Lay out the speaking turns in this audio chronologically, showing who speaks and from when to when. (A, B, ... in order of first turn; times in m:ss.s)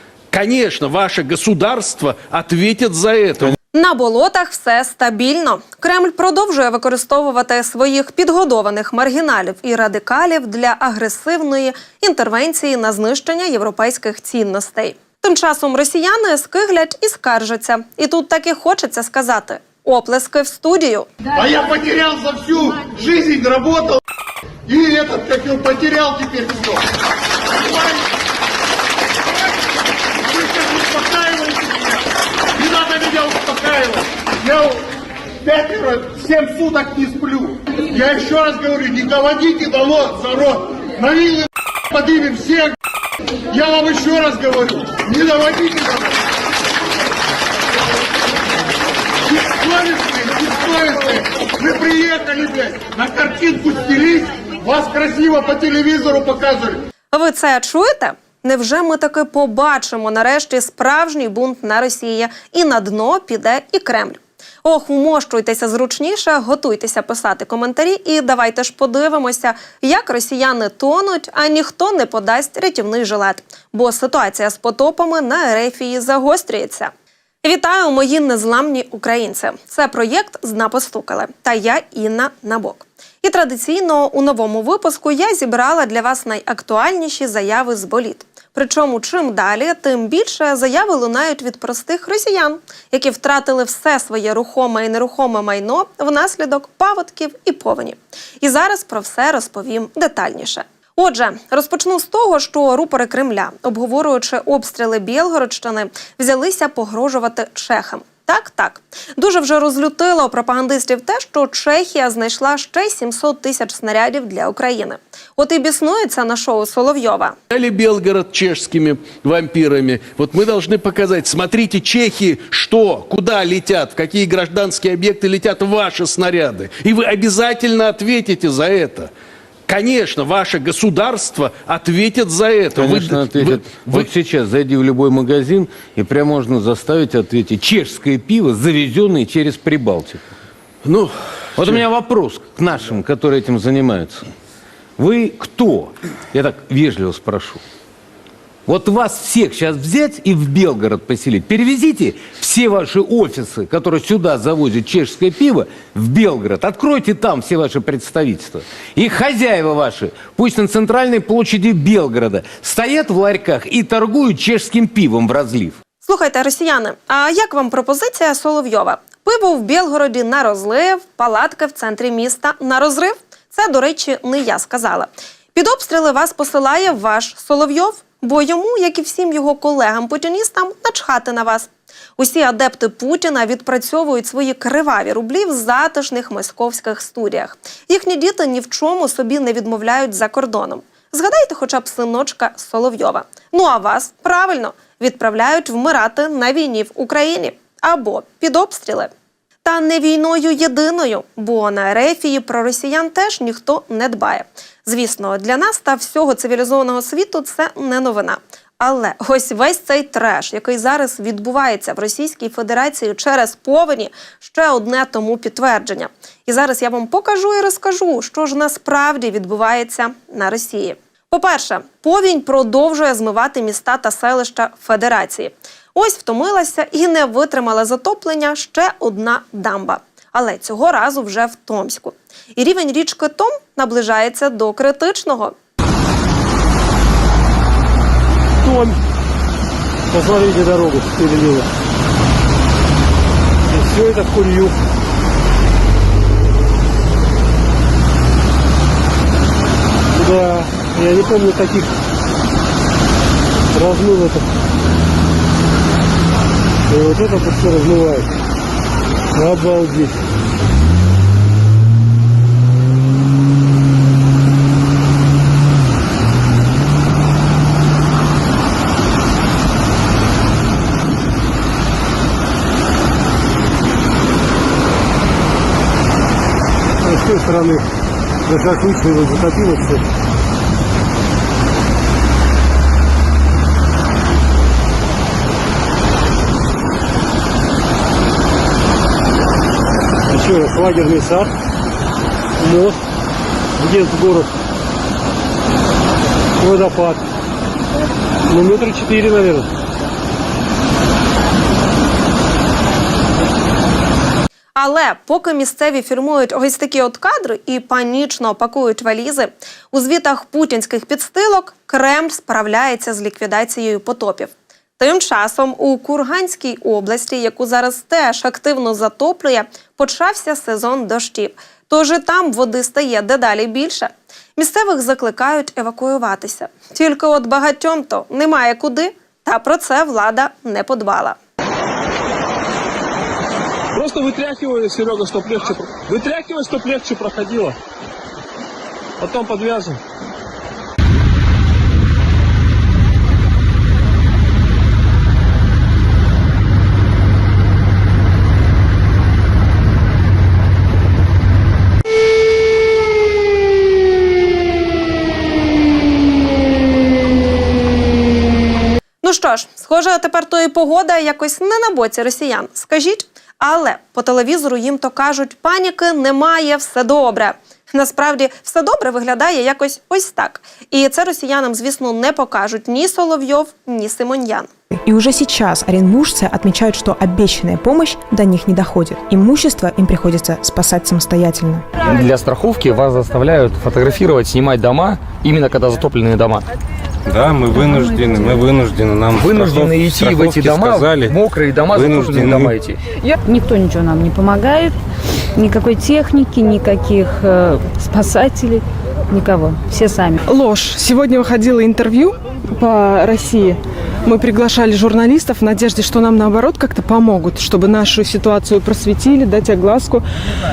0:00.3-0:03.6 A
0:03.7-0:21.1 B
0:21.3-0:24.0 C
0:24.7-0:26.8 C
0:27.6-0:28.0 C
0:30.3-0:32.0 C
0:32.6-0:34.8 C
0:35.4-0:42.8 C
0:43.5-0:46.1 C
0:49.3-0:56.8 C
0:57.1-1:16.9 B
1:17.4-1:57.4 B
1:57.5-2:09.1 A
2:09.7-2:14.1 A
2:12.8-2:20.4 D
2:20.8-2:21.8 A
2:21.6-2:24.3 D
2:25.0-2:27.6 D
2:28.7-2:45.8 D
2:46.0-3:19.1 B
3:19.6-3:55.6 B
4:00.1-4:01.6 E
4:03.8-4:04.7 E
4:10.2-4:11.9 E
4:13.8-4:14.4 E
4:16.9-4:18.3 E
4:19.4-4:20.1 E
4:37.0-4:37.8 E
4:38.5-4:40.0 E
4:50.3-4:51.5 E
4:52.6-4:53.0 E
4:53.8-4:54.5 E
4:56.6-4:57.2 E
4:58.5-4:59.7 E
5:04.8-5:31.4 B
5:34.0-5:37.7 F
5:39.2-5:40.0 F
5:59.2-6:14.7 B
6:14.9-6:21.9 G
6:22.0-6:26.6 H
6:27.3-6:31.4 I
6:27.7-6:28.6 J
6:29.4-6:33.0 H
6:31.9-6:32.7 I
6:33.4-6:35.0 J
6:35.6-6:40.4 J
6:40.5-6:50.2 K